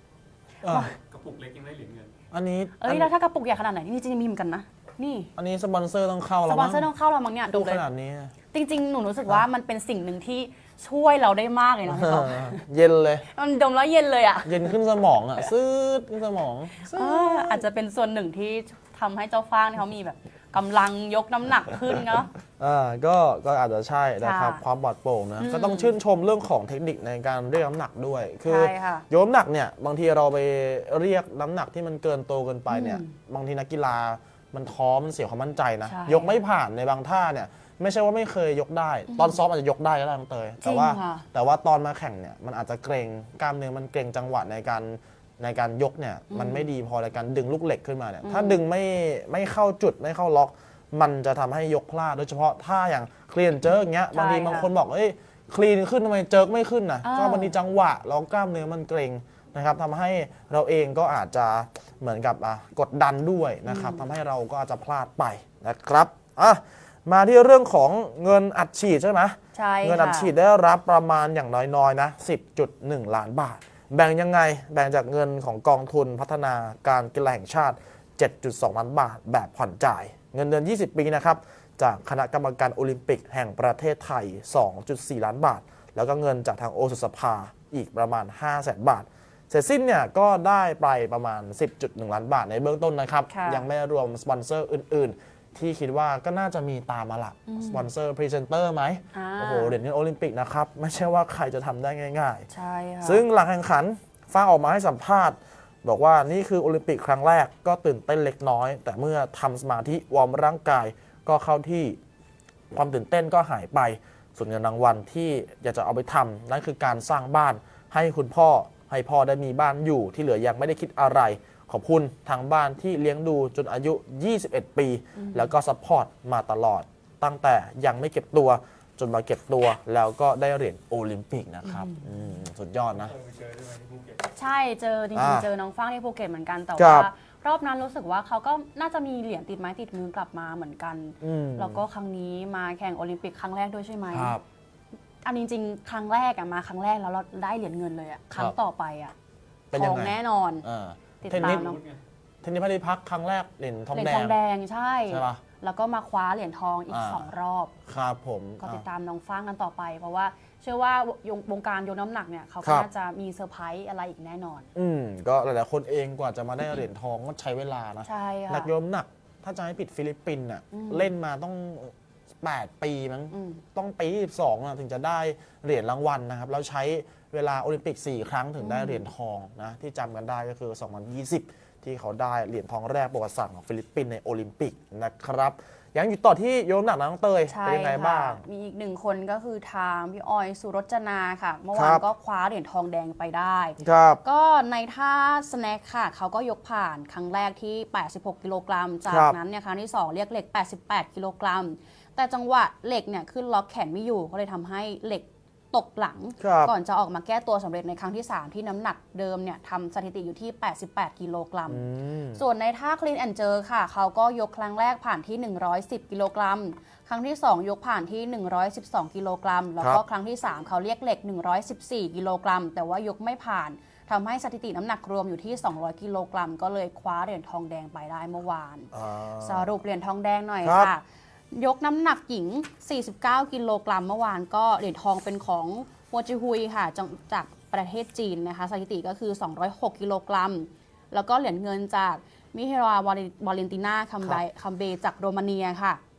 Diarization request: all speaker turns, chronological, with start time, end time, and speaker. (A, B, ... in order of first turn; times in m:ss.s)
0:00.6-0:00.9 A
0:00.6-0:00.9 B
0:01.0-0:02.1 C
0:02.3-0:03.1 A
0:02.8-0:05.3 B
0:05.3-0:06.9 A
0:06.5-0:07.8 B
0:07.5-0:08.3 A
0:08.5-0:12.6 B
0:11.9-0:13.2 A
0:13.3-0:14.7 B
0:14.4-0:17.6 A
0:16.8-0:22.3 B
0:22.6-1:42.5 A
0:24.2-0:24.6 B
0:25.4-0:25.9 B
0:28.4-0:29.0 B
0:32.7-0:33.1 B
0:35.9-0:36.4 B
0:39.1-0:39.4 B
0:40.6-0:41.2 B
0:46.3-0:46.7 B
0:48.2-0:48.6 B
0:54.1-0:54.7 B
0:57.0-0:57.5 B
1:03.7-1:04.0 B
1:09.5-1:10.3 B
1:33.3-1:33.6 B
1:37.5-1:37.8 B
1:39.1-1:39.8 B
1:42.5-1:43.2 B
1:43.0-1:52.0 A
1:52.7-2:13.2 A
2:05.1-2:05.5 B
2:11.7-2:12.1 B
2:13.2-2:14.2 C
2:14.3-2:24.4 B
2:15.1-2:15.5 A
2:16.8-2:17.1 A
2:21.2-2:21.8 A
2:24.1-2:24.4 A
2:25.2-2:29.1 B
2:29.7-2:31.7 A
2:29.7-2:30.6 B
2:31.2-2:31.8 B
2:31.6-2:32.0 C
2:32.4-2:34.4 A
2:33.9-2:37.7 B
2:35.1-2:35.4 A
2:36.9-2:37.3 A
2:37.8-2:38.8 A
2:38.6-2:44.7 B
2:42.6-2:42.9 A
2:44.7-3:08.4 A
2:48.0-2:48.7 B
2:50.7-2:51.1 B
2:53.3-2:53.6 B
2:58.6-2:59.0 B
3:07.5-3:31.8 B
3:11.7-3:12.0 A
3:13.8-3:14.2 A
3:19.1-3:19.4 A
3:26.4-3:26.7 A
3:31.7-3:32.4 A
3:32.4-4:06.0 B
3:48.9-3:49.7 A
3:50.6-3:50.9 A